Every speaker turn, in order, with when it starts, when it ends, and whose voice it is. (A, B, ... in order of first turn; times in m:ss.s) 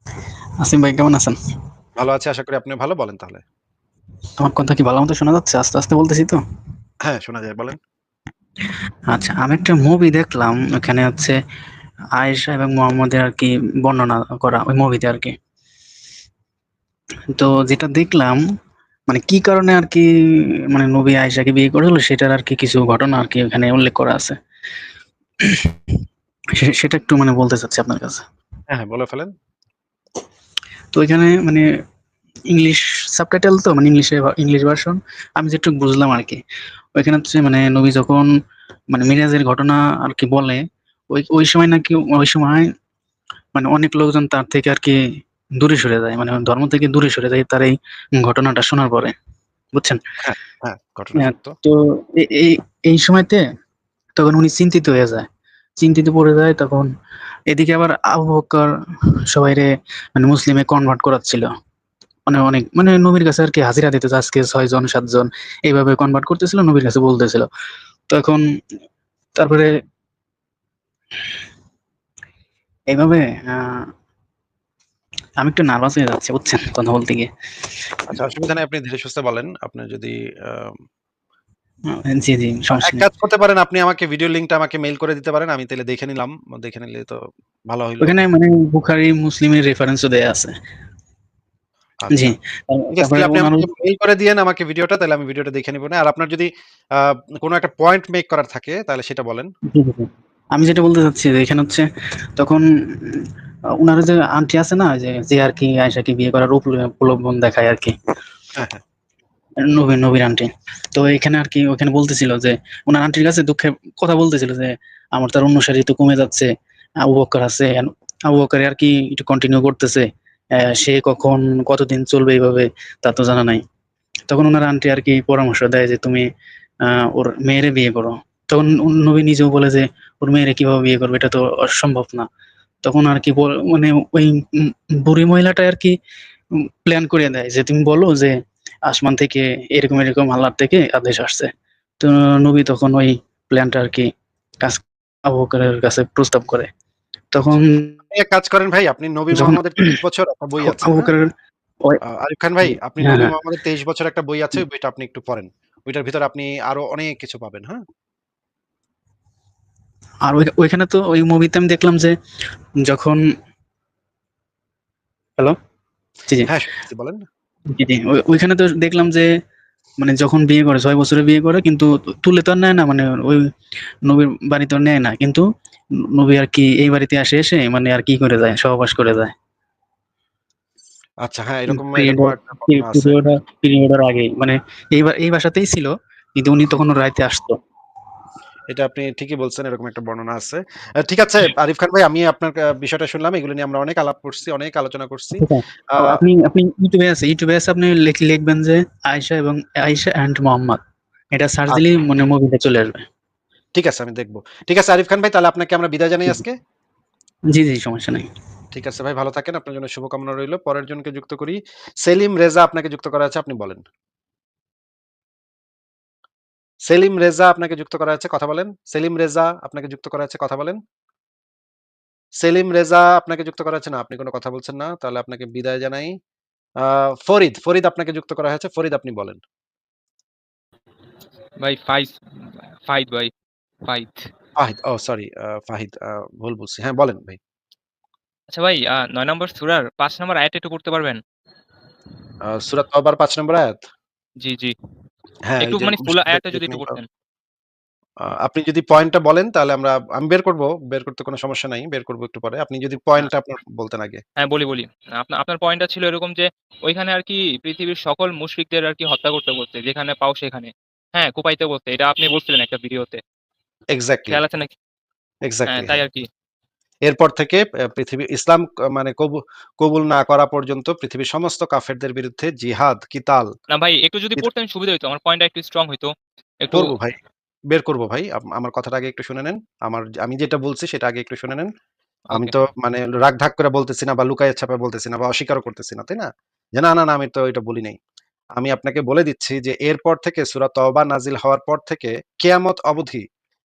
0:00.6-0:01.4 A
0:02.0-0:03.4 B
0:04.4-0:06.4 A
0:07.0-0:07.8 B
0:09.1-0:11.4 A
0:12.2-0:15.3 A
0:17.3-0:18.4 A
0:19.1-0:20.1 A
0:20.7-0:24.4 A
0:25.4-0:26.0 A
0:26.5-0:28.2 A
0:28.7-0:29.3 B
0:30.9-0:31.6 A
0:32.5-0:36.4 A
0:37.0-0:38.3 A
0:38.9-0:42.6 A
0:43.5-0:45.0 A
0:45.6-0:49.1 A
0:49.7-0:50.0 A
0:50.2-0:51.6 B
0:51.2-0:53.4 A
0:54.2-0:55.3 A
0:55.8-0:56.9 A
0:57.5-0:58.7 A
0:59.3-1:01.5 A
1:02.3-1:07.5 A
1:08.1-1:08.4 A
1:09.4-1:09.7 A
1:12.9-1:13.9 A
1:15.4-1:17.3 A
1:18.1-1:20.8 B
1:21.9-1:23.0 A
1:22.7-1:28.2 B
1:28.0-1:30.5 A
1:32.0-1:32.3 B
1:32.1-1:33.7 A
1:33.0-1:39.5 B
1:39.7-1:41.8 A
1:42.4-1:47.9 A
1:48.6-1:48.8 B
1:49.6-1:56.5 A
1:57.0-2:03.6 A
2:04.3-2:06.3 A
2:06.8-2:12.3 A
2:12.8-2:15.9 A
2:16.5-2:24.1 A
2:24.6-2:26.7 A
2:27.3-2:28.0 A
2:28.1-2:31.1 B
2:29.3-2:30.0 A
2:30.6-2:32.0 A
2:32.0-2:37.8 B
2:32.6-2:33.3 A
2:40.2-2:42.1 A
2:42.8-2:43.2 A
2:46.4-2:47.2 B
2:47.7-2:49.3 A
2:50.0-2:53.5 A
2:54.0-2:55.4 A
2:56.1-2:59.3 A
3:01.2-3:03.2 B
3:01.7-3:07.6 A
3:08.7-3:16.2 B
3:15.4-3:20.8 A
3:21.3-3:23.0 A
3:23.7-3:26.6 B
3:27.5-3:28.3 A
3:28.7-3:33.8 B
3:36.8-3:40.8 B
3:42.4-3:46.2 B
3:46.8-3:49.4 B
3:51.6-3:53.3 C
3:53.8-3:54.3 C
3:54.6-3:57.4 B
3:58.5-4:01.2 C
4:02.4-4:03.8 B
4:04.4-4:04.7 C
4:05.5-4:07.0 B
4:05.6-4:07.0 C
4:08.2-4:14.2 B
4:14.4-4:23.2 C
4:23.9-4:24.4 B
4:24.3-4:24.7 C
4:25.4-4:25.9 B
4:25.7-4:26.3 C
4:27.0-4:33.5 B
4:33.7-4:36.9 C
4:36.7-4:37.2 B
4:37.7-4:41.7 B
4:42.3-4:48.0 B
4:48.6-4:53.2 B